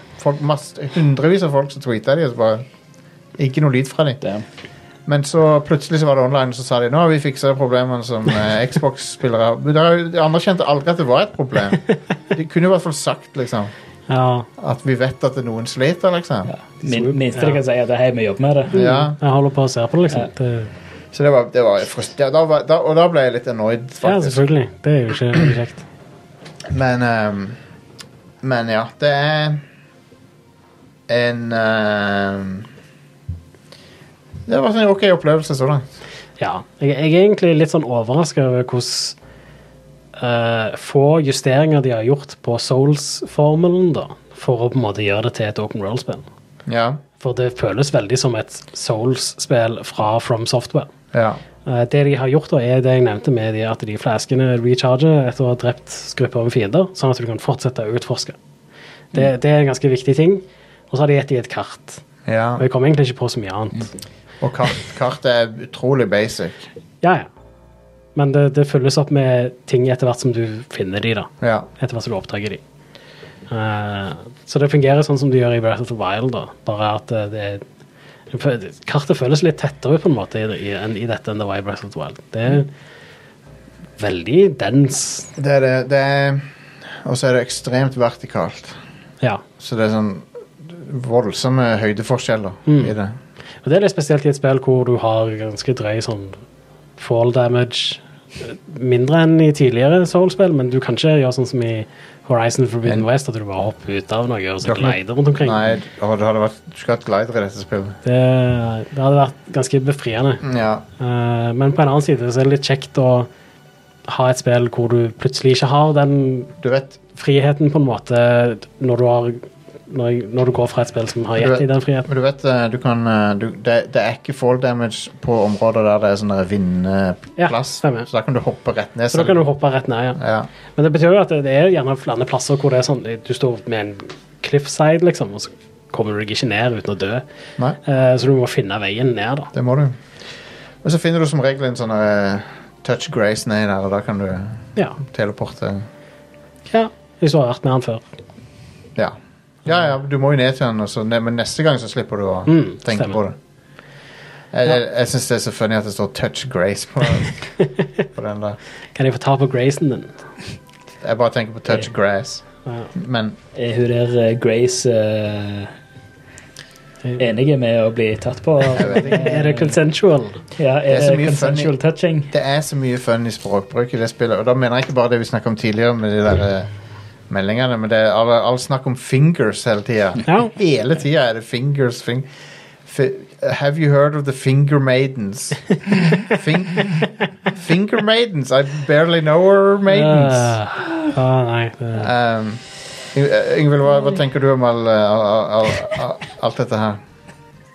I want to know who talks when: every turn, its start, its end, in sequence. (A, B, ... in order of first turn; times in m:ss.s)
0:00.2-0:02.6 A
0:03.4-0:04.2 A
0:04.2-0:04.5 B
0:05.1-0:13.7 A
0:14.1-0:14.5 C
0:14.6-0:16.5 A
0:16.5-0:18.7 B
0:16.9-0:17.6 C
0:18.7-0:19.2 A
0:18.7-0:20.7 C
0:21.1-0:24.4 A
0:24.0-0:25.8 C
0:26.7-0:27.6 A
0:28.4-0:29.6 A
0:31.1-0:32.7 A
0:34.5-0:35.8 A
0:36.4-0:39.2 C
0:40.2-0:46.2 C
0:46.7-0:47.0 A
0:47.2-0:50.9 C
0:51.1-0:51.4 A
0:51.6-0:58.4 C
0:59.1-1:02.0 C
1:02.3-1:02.6 A
1:02.6-1:03.9 C
1:04.4-1:06.7 A
1:07.0-1:07.3 C
1:08.2-1:12.6 C
1:11.4-1:11.7 A
1:13.5-1:17.6 C
1:18.3-1:22.7 C
1:24.0-1:25.3 C
1:25.4-1:28.8 A
1:29.6-1:33.2 A
1:32.7-1:32.9 C
1:33.6-1:36.4 C
1:37.0-1:45.6 C
1:44.6-1:48.0 A
1:48.0-1:50.4 C
1:50.4-1:50.8 A
1:51.0-1:53.3 C
1:54.1-1:56.5 C
1:56.6-1:57.0 A
1:57.1-2:02.1 C
2:01.4-2:09.4 A
2:07.4-2:08.1 C
2:09.1-2:10.2 C
2:10.2-2:10.5 A
2:10.7-2:17.2 C
2:17.8-2:19.5 C
2:19.5-2:20.0 A
2:20.8-2:25.8 A
2:26.7-2:28.0 C
2:29.0-2:33.4 A
2:32.5-2:33.2 C
2:34.5-2:37.4 A
2:38.2-2:38.6 A
2:39.0-2:40.2 C
2:41.0-2:43.4 A
2:43.6-2:45.7 B
2:47.2-2:49.7 B
2:48.7-2:49.4 A
2:48.7-2:50.4 C
2:50.6-2:52.3 B
2:50.9-2:51.7 A
2:52.3-2:56.7 A
2:57.3-3:02.3 A
3:00.3-3:00.5 C
3:02.8-3:05.7 A
3:06.2-3:10.6 A
3:09.9-3:12.1 C
3:12.0-3:12.6 A
3:13.1-3:17.0 A